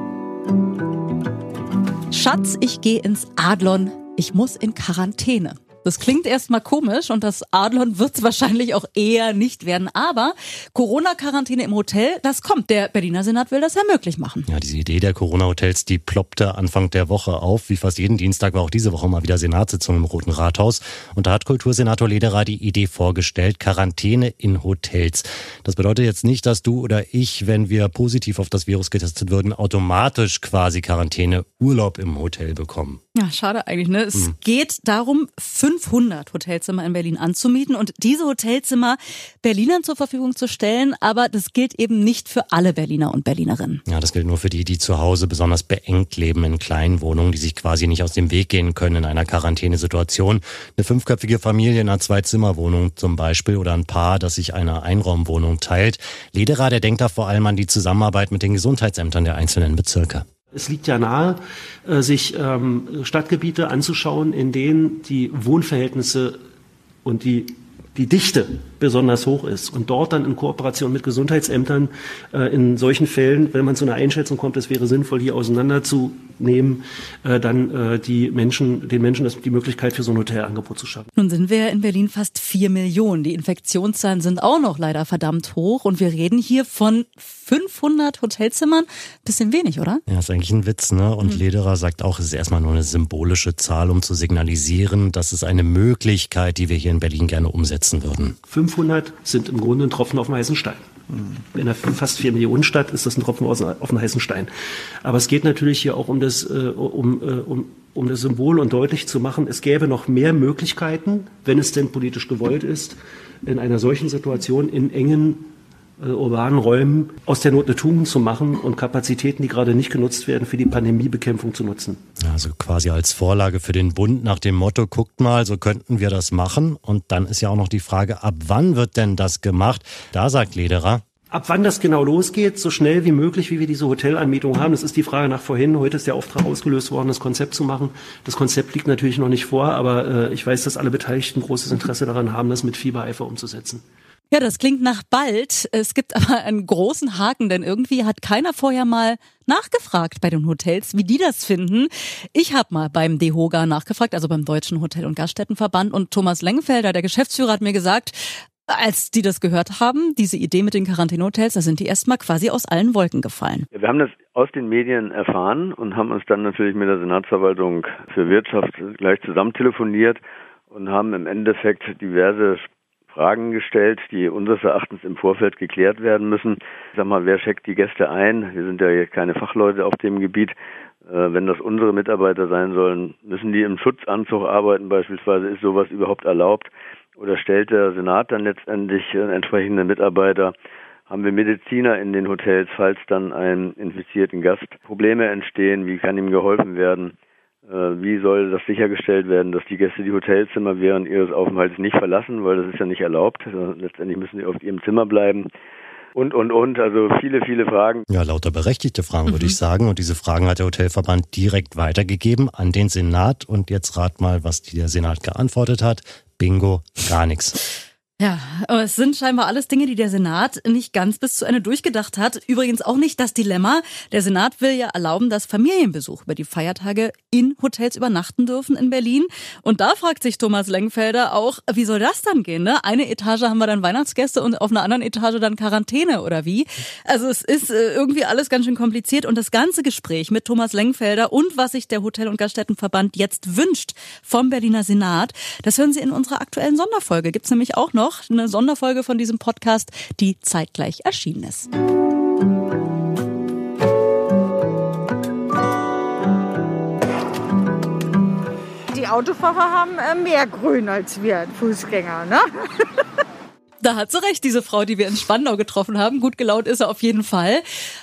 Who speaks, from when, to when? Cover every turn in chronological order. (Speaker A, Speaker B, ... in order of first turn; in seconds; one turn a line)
Speaker A: 2.1-14.5
Speaker B: 14.5-33.0
Speaker A: 33.1-43.8
Speaker B: 43.9-60.2
Speaker C: 60.5-66.3
Speaker C: 67.0-81.1
Speaker A: 81.2-90.0
Speaker B: 90.1-98.4
Speaker C: 98.5-100.8
Speaker C: 101.5-104.5
Speaker C: 105.0-115.5
Speaker C: 116.0-122.0
Speaker B: 122.2-131.0
Speaker C: 131.3-143.8
Speaker A: 144.3-163.7
Speaker D: 163.7-170.2
Speaker D: 170.7-180.5
Speaker D: 181.1-190.5
Speaker D: 191.1-197.1
Speaker D: 197.7-205.5
Speaker D: 206.1-208.0
Speaker B: 208.1-217.6
Speaker A: 209.3-209.6
Speaker A: 218.2-251.7
Speaker E: 258.9-262.4
Speaker A: 263.8-267.6